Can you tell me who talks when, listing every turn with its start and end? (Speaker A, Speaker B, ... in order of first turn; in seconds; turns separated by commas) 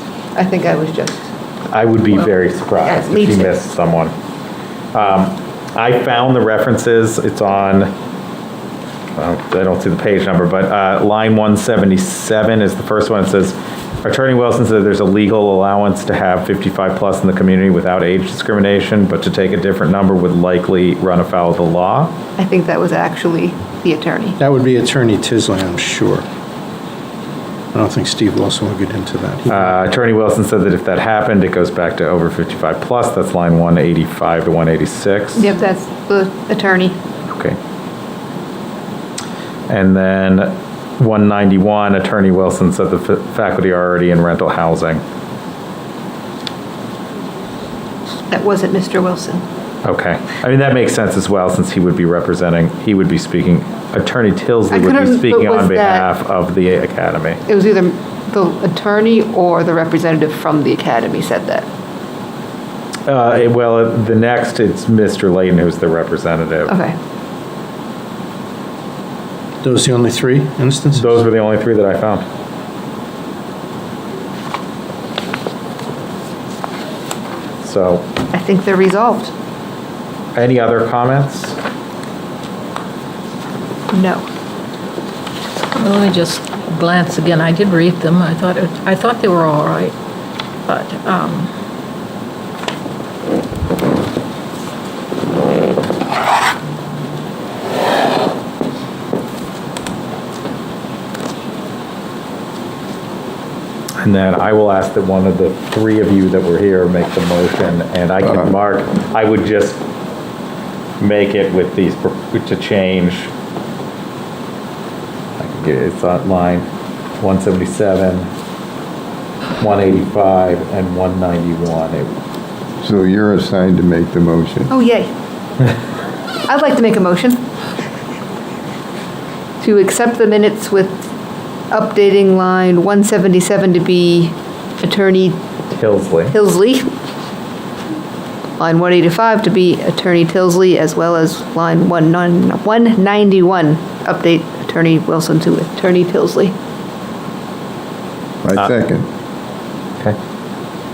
Speaker A: 0.3-1.3, Speaker B: 1.7-4.1, Speaker A: 2.8-3.5, Speaker B: 4.9-7.9, Speaker B: 9.2-22.1, Speaker A: 22.4-24.4, Speaker C: 24.4-26.2, Speaker C: 27.7-29.7, Speaker B: 29.5-35.5, Speaker A: 35.4-37.0, Speaker B: 37.3-37.6, Speaker B: 39.7-45.0, Speaker A: 48.3-49.4, Speaker B: 49.8-57.4, Speaker A: 54.7-56.1, Speaker A: 57.5-61.6, Speaker B: 63.1-66.7, Speaker A: 66.7-66.9, Speaker C: 69.6-71.2, Speaker B: 70.9-72.2, Speaker B: 77.6-78.1, Speaker A: 78.3-79.3, Speaker B: 80.3-81.6, Speaker A: 83.9-84.2, Speaker D: 85.7-89.9, Speaker D: 90.7-91.5, Speaker B: 104.0-109.8, Speaker B: 111.0-113.3, Speaker B: 115.4-116.7, Speaker B: 117.2-118.3, Speaker B: 119.6-122.1, Speaker E: 122.8-124.7, Speaker A: 124.7-125.1, Speaker A: 126.5-127.4, Speaker A: 129.6-130.9, Speaker A: 131.7-135.4, Speaker B: 135.7-136.4, Speaker A: 136.3-136.9, Speaker A: 138.6-146.5, Speaker E: 148.4-149.1